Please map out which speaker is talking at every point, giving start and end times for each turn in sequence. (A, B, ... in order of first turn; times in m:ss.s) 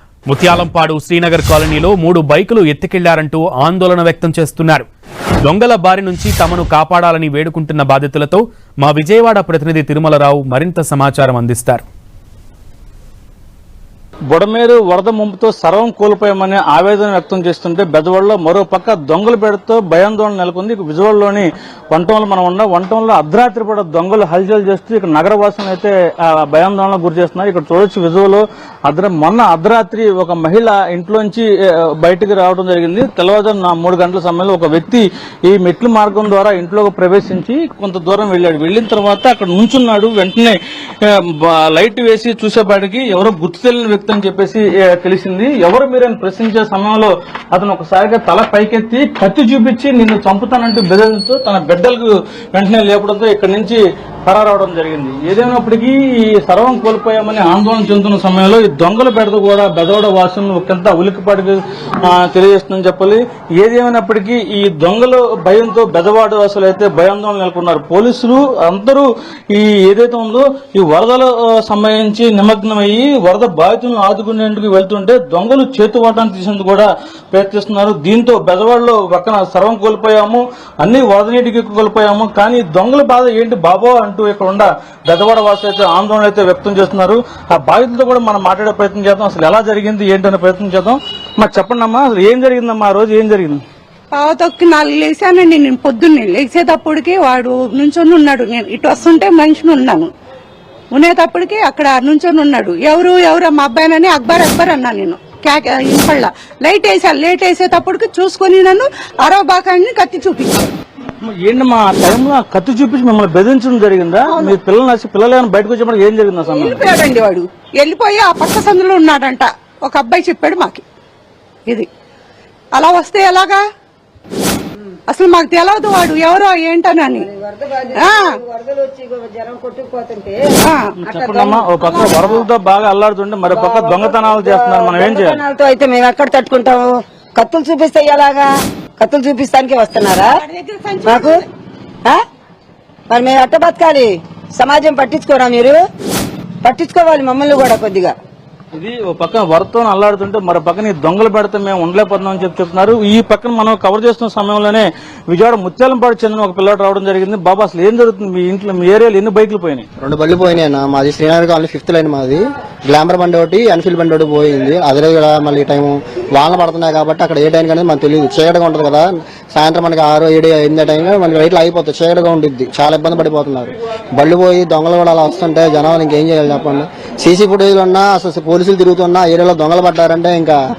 0:00.3-0:04.9 A
0:05.4-0:11.8 A
0:14.3-0:31.5 B
0:32.0-1:33.6 B
1:34.1-1:40.1 C
1:40.9-1:50.7 C
1:51.2-1:56.8 B
1:54.3-1:54.6 C
1:56.5-2:00.8 C
2:02.7-2:03.6 C
2:05.1-2:07.3 C
2:07.2-2:10.4 D
2:07.9-2:08.3 C
2:10.6-2:10.9 C
2:11.0-2:15.4 B
2:11.0-2:12.4 D
2:11.8-2:12.2 C
2:13.5-2:20.4 D
2:20.3-2:21.4 C
2:21.0-2:21.4 D
2:23.1-2:25.8 D
2:26.6-2:28.1 D
2:28.7-2:39.8 B
2:40.0-3:00.6 E